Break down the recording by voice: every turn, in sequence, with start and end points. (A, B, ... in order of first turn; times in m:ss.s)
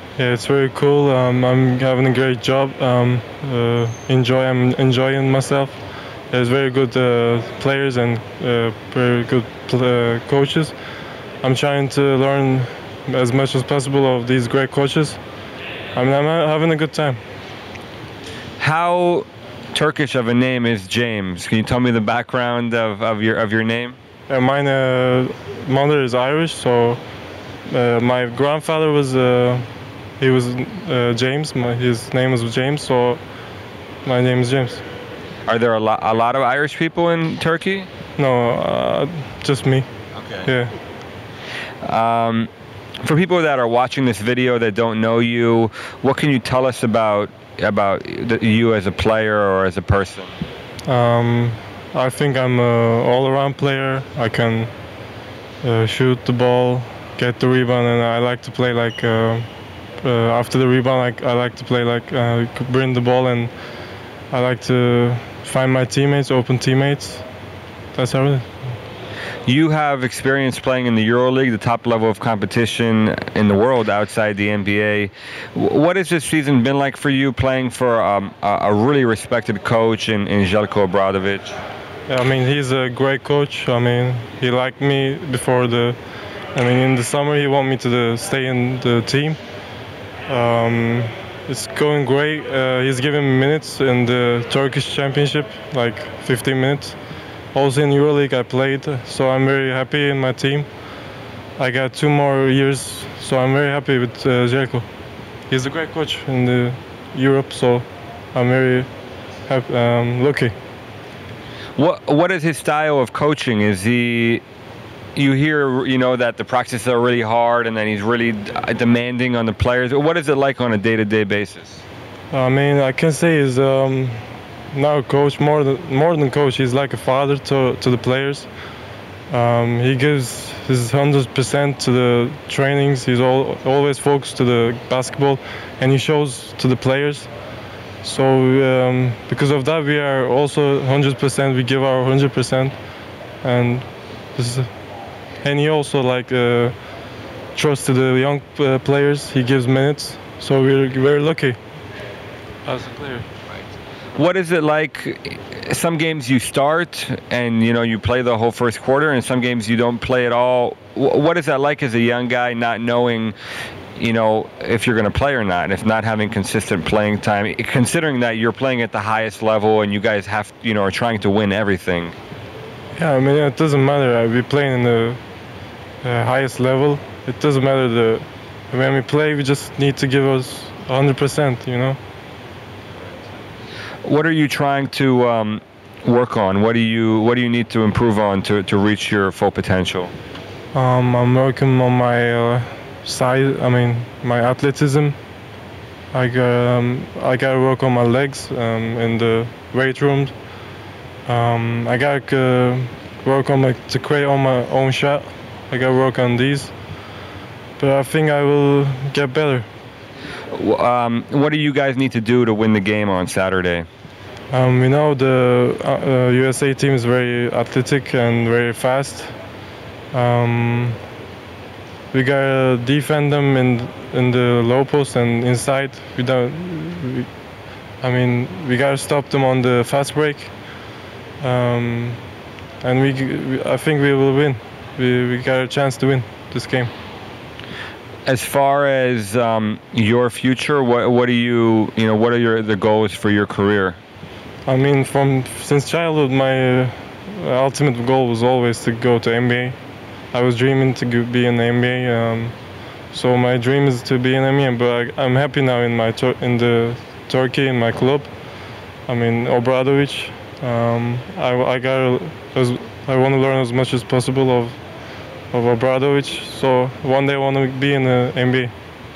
0:00.2-0:10.7 A
0:11.4-0:15.2 A
0:15.9-0:17.2 A
0:18.6-0:24.0 B
0:24.3-0:27.0 A
0:27.7-0:29.7 A
0:30.2-0:33.2 A
0:34.0-0:34.8 A
0:35.5-0:37.9 B
0:38.2-0:39.9 A
0:40.1-0:40.5 B
0:40.4-0:40.7 A
0:41.8-0:42.5 B
0:43.0-0:50.3 B
0:50.8-0:54.7 A
0:55.6-0:59.5 A
1:00.0-1:03.5 A
1:04.3-1:07.2 A
1:07.9-1:08.5 A
1:09.4-1:21.5 B
1:22.1-1:26.0 A
1:26.5-1:29.4 A
1:30.3-1:37.0 A
1:37.5-1:40.7 A
1:41.6-1:44.9 A
1:45.5-1:48.9 A
1:49.4-1:50.6 A
1:51.8-1:54.4 B
1:55.2-2:01.8 B
2:02.3-2:08.5 A
2:09.3-2:17.3 A
2:18.0-2:22.7 A
2:23.4-2:24.7 A
2:25.4-2:26.8 A
2:27.5-2:31.6 A
2:32.6-2:33.3 A
2:34.1-2:43.3 B
2:44.0-2:52.2 B
2:52.9-2:55.2 A
2:56.0-3:02.0 A
3:04.0-3:10.1 B
3:10.7-3:15.2 A
3:16.1-3:20.3 A
3:21.2-3:26.7 A
3:27.8-3:29.7 A
3:30.5-3:33.8 B
3:34.5-3:39.4 A
3:40.1-3:41.0 A
3:42.1-3:47.3 A
3:48.0-3:50.6 A
3:51.4-3:52.2 A
3:52.8-3:56.9 A
3:58.2-4:04.0 B
4:04.6-4:09.8 A
4:10.3-4:12.6 A
4:13.1-4:18.3 A
4:19.0-4:24.8 A
4:25.5-4:28.7 A